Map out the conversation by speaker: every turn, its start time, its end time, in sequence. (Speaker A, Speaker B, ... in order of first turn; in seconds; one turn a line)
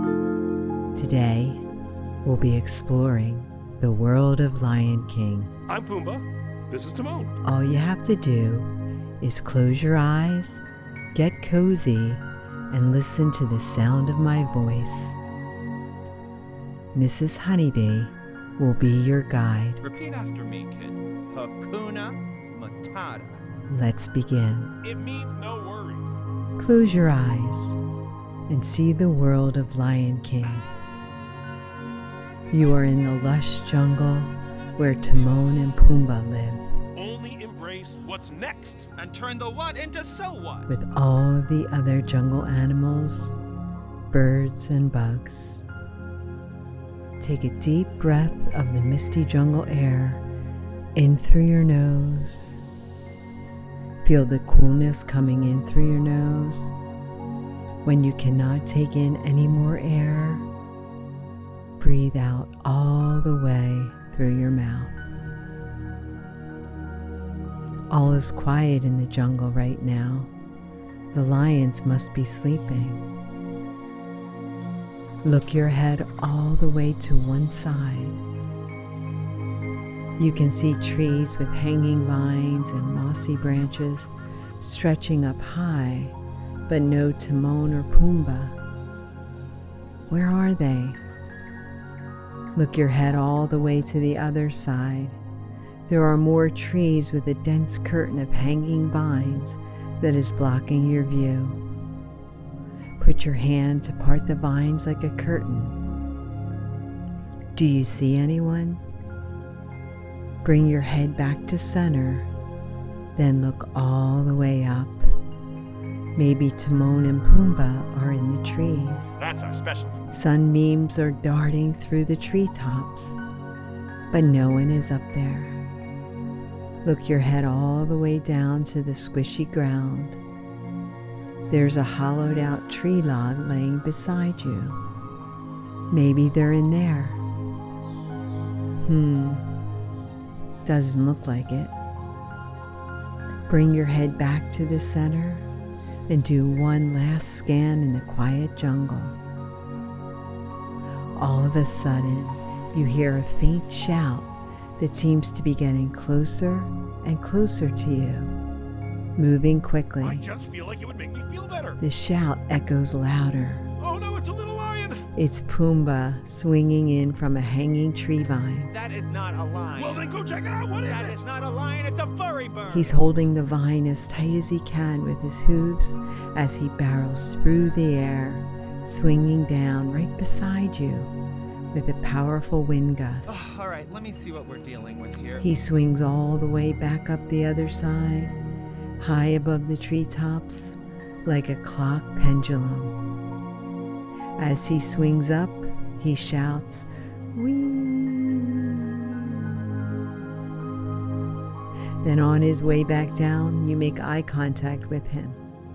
Speaker A: 0.9-1.6
Speaker A: 2.2-5.5
Speaker B: 5.7-7.4
Speaker A: 7.4-8.7
Speaker A: 9.2-10.6
Speaker A: 11.1-15.2
Speaker A: 16.9-19.8
Speaker C: 19.8-23.4
Speaker A: 23.7-24.7
Speaker B: 24.8-26.2
Speaker A: 26.6-27.8
Speaker A: 28.5-30.7
Speaker A: 32.5-36.7
Speaker B: 37.0-38.9
Speaker C: 39.0-40.7
Speaker A: 40.7-43.3
Speaker A: 44.1-45.6
Speaker A: 47.2-50.2
Speaker A: 51.0-52.6
Speaker A: 54.0-56.7
Speaker A: 57.9-60.5
Speaker A: 61.8-65.0
Speaker A: 67.9-70.3
Speaker A: 71.1-73.0
Speaker A: 75.2-78.2
Speaker A: 80.2-86.2
Speaker A: 86.7-88.6
Speaker A: 90.1-91.0
Speaker A: 92.5-95.2
Speaker A: 95.9-101.6
Speaker A: 103.0-105.8
Speaker A: 107.5-108.8
Speaker A: 110.4-112.3
Speaker A: 113.2-115.1
Speaker A: 116.2-119.2
Speaker C: 119.2-119.9
Speaker A: 120.1-123.2
Speaker A: 124.1-125.6
Speaker A: 126.8-130.2
Speaker A: 131.5-134.8
Speaker A: 135.9-137.2
Speaker A: 138.8-139.4
Speaker A: 140.7-141.7
Speaker A: 143.5-145.5
Speaker A: 146.1-149.2
Speaker A: 151.2-158.3
Speaker A: 159.2-160.3
Speaker B: 160.0-161.8
Speaker A: 161.8-163.7
Speaker B: 163.8-165.1
Speaker A: 165.2-168.7
Speaker C: 168.7-170.1
Speaker B: 169.7-171.2
Speaker C: 170.8-172.9
Speaker A: 172.7-181.1
Speaker A: 181.7-183.4
Speaker C: 183.3-185.5
Speaker A: 185.4-188.3
Speaker A: 189.0-193.0
Speaker A: 194.4-199.5
Speaker A: 202.0-205.4